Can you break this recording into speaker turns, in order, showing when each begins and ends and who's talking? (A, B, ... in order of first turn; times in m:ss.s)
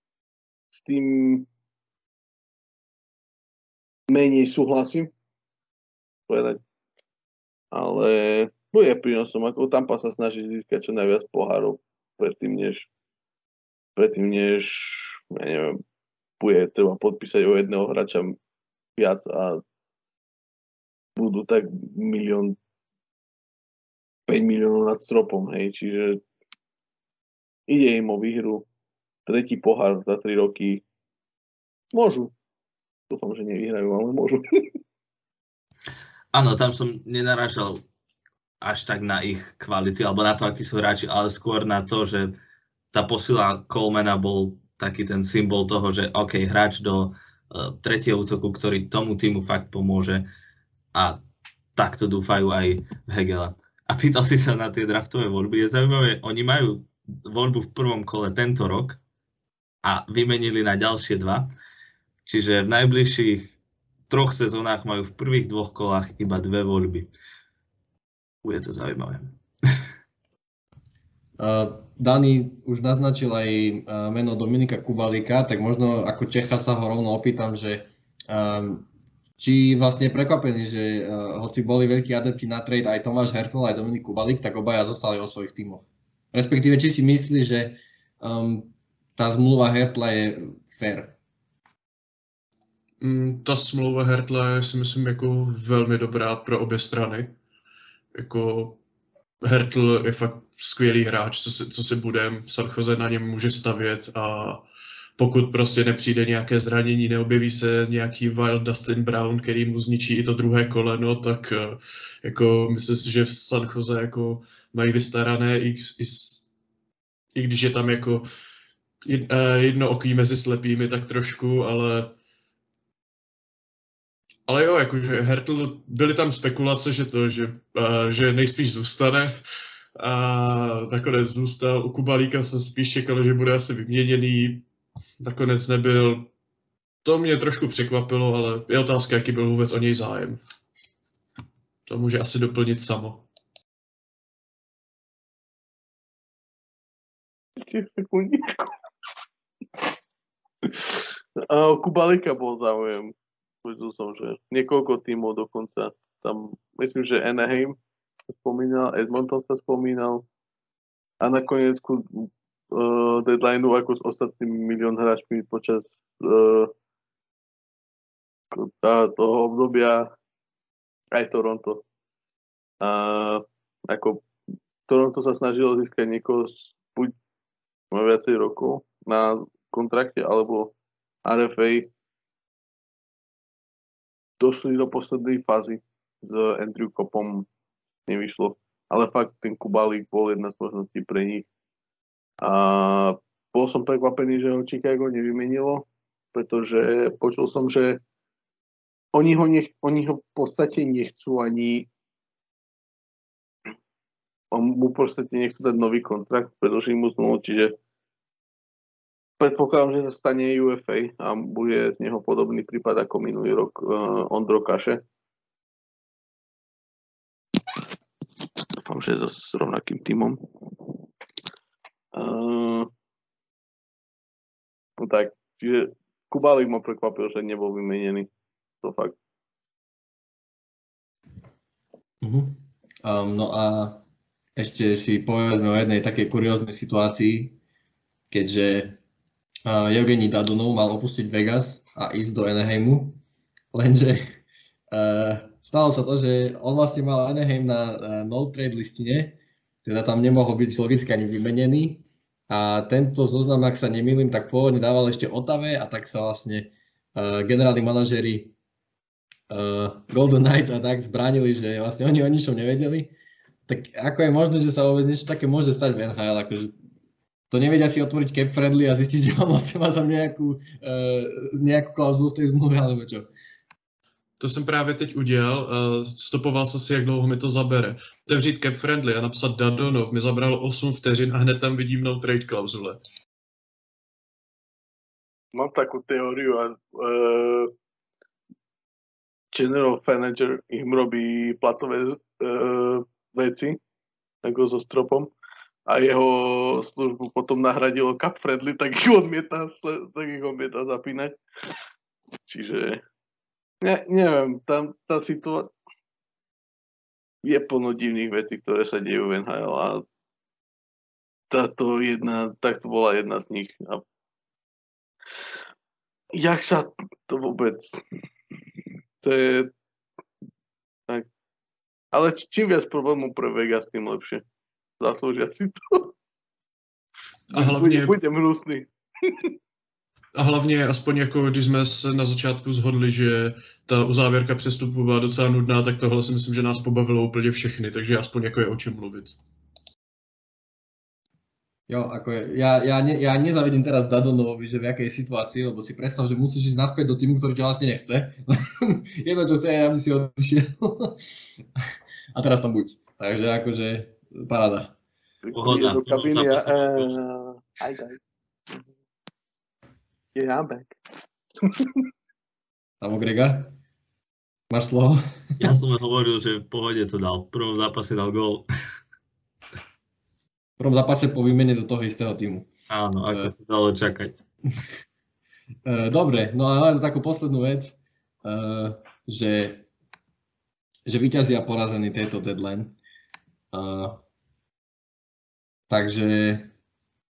0:00.7-0:01.5 A
0:04.1-0:05.1 A
0:06.3-0:06.6 A
0:07.7-0:12.9 A
0:14.0-0:15.8 A
0:16.4-0:18.4 A
0:19.0-0:19.6 A
0:21.2-0:22.6 A
0:24.3-0:26.2 A
0:27.7-0:28.6 A
0:29.2-0:30.8 A
0:31.9-0:32.3 A
0:33.1-0:34.7 A
0:36.3-0:37.8 B
0:38.6-0:42.3 B
0:42.9-0:50.3 B
0:50.9-0:51.2 B
0:51.8-0:59.0 B
0:59.8-1:01.5 B
1:02.2-1:03.5 B
1:04.1-1:07.1 B
1:08.4-1:09.4 B
1:11.4-1:18.9 C
1:19.4-1:31.2 C
1:33.0-1:37.4 D
1:38.1-1:38.8 D
1:39.4-1:44.6 D
1:45.2-1:56.4 D
1:57.3-1:58.2 D
1:59.0-2:02.2 D
2:04.5-2:09.3 D
2:10.0-2:14.6 D
2:15.2-2:16.3 D
2:17.0-2:20.4 D
2:21.9-2:23.2 D
2:27.6-2:28.7 A
2:30.6-2:31.0 A
2:31.5-2:37.8 A
2:38.3-2:40.2 A
2:41.2-2:46.7 A
2:48.5-2:50.1 A
2:51.1-2:51.8 A
2:52.8-2:54.2 A
2:54.9-2:57.1 A
2:57.9-3:00.7 A
3:01.2-3:01.9 A
3:04.4-3:07.5 A
3:08.1-3:11.4 A
3:12.4-3:18.0 A
3:19.1-3:21.9 A
3:24.5-3:27.7 A
3:29.4-3:35.0 A
3:38.8-3:40.4 A
3:42.1-3:42.9 A
3:45.0-3:48.3 A
3:48.8-3:49.2 A
3:52.2-3:54.0 C
3:54.6-3:57.6 C
3:58.3-3:59.0 C
3:59.6-4:03.2 C
4:03.7-4:04.4 C
4:04.9-4:18.5 C
4:19.5-4:23.1 C
4:23.7-4:26.7 C
4:27.5-4:33.3 C
4:34.4-4:43.0 D
4:45.5-4:47.7 A
4:49.5-4:53.8 A
4:54.4-4:55.3 A
4:55.9-5:01.4 A
5:02.5-5:03.0 A
5:03.8-5:05.7 A
5:07.4-5:10.0 A
5:11.5-5:14.0 A
5:16.3-5:17.9 A
5:19.2-5:19.7 A
5:22.1-5:24.4 A
5:25.0-5:26.1 A
5:27.5-5:28.1 D
5:27.5-5:29.5 A
5:30.3-5:39.4 D
5:41.9-5:51.3 C
5:52.3-5:55.0 C
5:55.4-5:58.2 A
5:55.5-5:57.1 B
6:00.3-6:01.0 A
6:01.6-6:02.0 A
6:03.0-6:03.8 C
6:04.7-6:05.7 C
6:05.6-6:08.6 B
6:10.8-6:12.7 C
6:12.9-6:14.4 B
6:15.8-6:19.9 C
6:21.0-6:23.0 C
6:23.7-6:24.2 C
6:25.9-6:26.7 C